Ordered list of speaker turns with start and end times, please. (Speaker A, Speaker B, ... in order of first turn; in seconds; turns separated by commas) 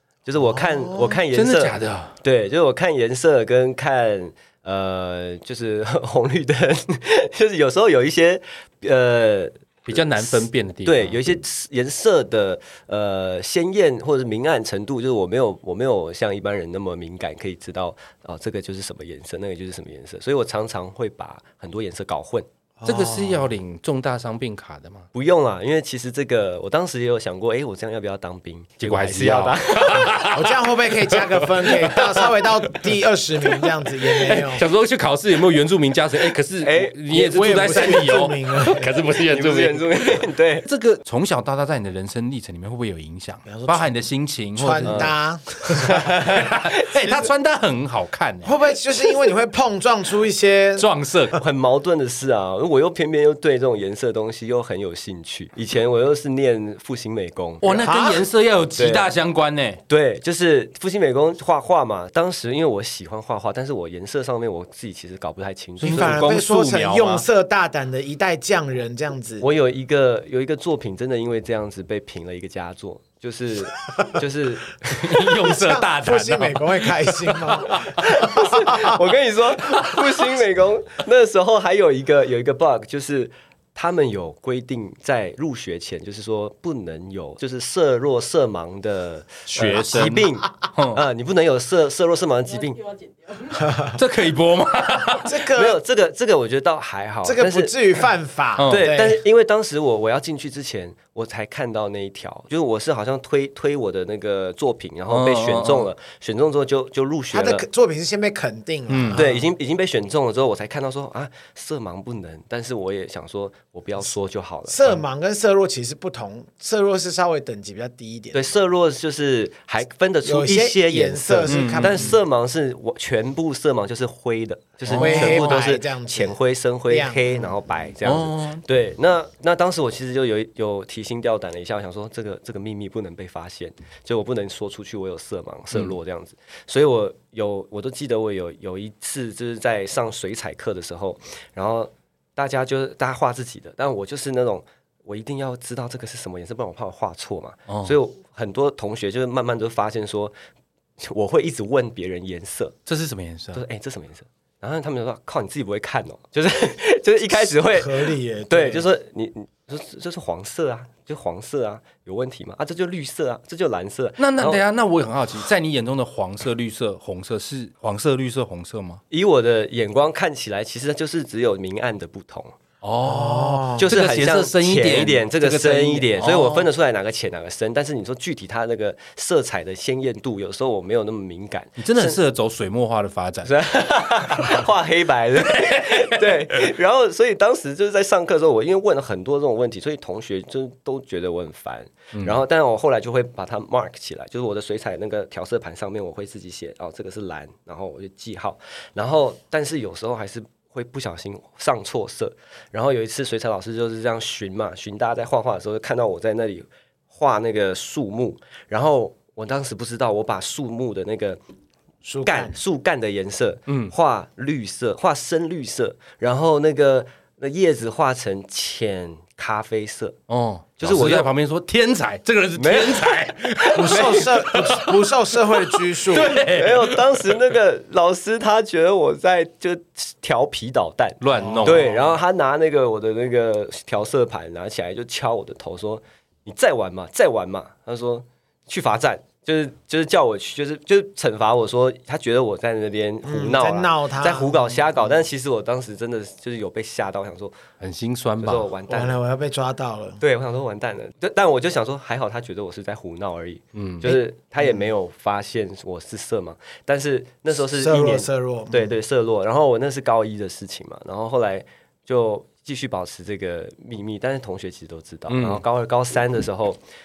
Speaker A: 0.2-22.5, Speaker B: 0.6-1.2, Speaker C: 1.3-2.2, Speaker C: 9.9-11.2, Speaker B: 22.8-23.6, Speaker C: 22.9-25.1, Speaker A: 25.1-30.2, Speaker C: 28.8-32.3, Speaker B: 30.2-34.6, Speaker C: 34.2-45.1, Speaker A: 36.6-38.1, Speaker B: 37.1-38.9, Speaker A: 39.3-40.7, Speaker B: 43.5-43.9, Speaker B: 44.5-46.1, Speaker A: 44.9-45.1, Speaker C: 45.8-48.5, Speaker A: 45.9-47.3, Speaker B: 48.4-50.9, Speaker C: 50.8-51.4, Speaker A: 51.3-57.9, Speaker C: 57.6-59.8, Speaker B: 57.8-58.2, Speaker A: 58.8-59.1, Speaker A: 59.9-66.3, Speaker C: 65.8-67.2, Speaker B: 65.8-69.5, Speaker A: 69.4-75.1, Speaker C: 74.9-78.2, Speaker B: 75.2-79.0, Speaker A: 77.9-93.1, Speaker C: 89.5-91.0, Speaker B: 93.5-94.0, Speaker C: 93.8-95.3, Speaker B: 95.2-95.8, Speaker A: 95.5-98.1, Speaker B: 97.2-99.2, Speaker C: 98.6-98.9, Speaker A: 98.7-107.7, Speaker C: 105.1-105.9, Speaker B: 107.3-109.3, Speaker C: 108.9-109.3, Speaker A: 109.1-114.8, Speaker B: 114.7-118.5, Speaker A: 118.3-150.3, Speaker B: 120.2-122.2, Speaker C: 121.5-122.1, Speaker C: 124.8-125.6, Speaker B: 125.0-126.4, Speaker B: 126.9-127.5, Speaker C: 128.0-128.6, Speaker C: 147.7-147.9, Speaker A: 151.0-152.8, Speaker C: 152.8-153.6, Speaker A: 153.5-164.6, Speaker B: 157.5-158.9, Speaker C: 164.2-169.0, Speaker A: 169.1-172.6, Speaker C: 172.8-176.7, Speaker B: 173.0-173.9, Speaker A: 173.8-182.2, Speaker C: 181.8-183.5, Speaker A: 183.4-211.4, Speaker C: 185.5-186.2, Speaker C: 192.1-192.4, Speaker B: 212.0-212.6, Speaker A: 212.2-220.2, Speaker C: 213.7-213.9, Speaker C: 220.3-227.4, Speaker A: 220.8-221.3, Speaker A: 222.5-224.5, Speaker B: 223.7-226.3, Speaker A: 226.3-247.5, Speaker C: 231.2-231.9, Speaker B: 231.3-232.0, Speaker B: 243.2-244.8, Speaker C: 247.8-248.7, Speaker A: 248.4-249.2, Speaker B: 248.9-250.2, Speaker A: 250.2-266.8, Speaker C: 253.7-254.2, Speaker B: 257.7-259.0, Speaker C: 265.3-265.6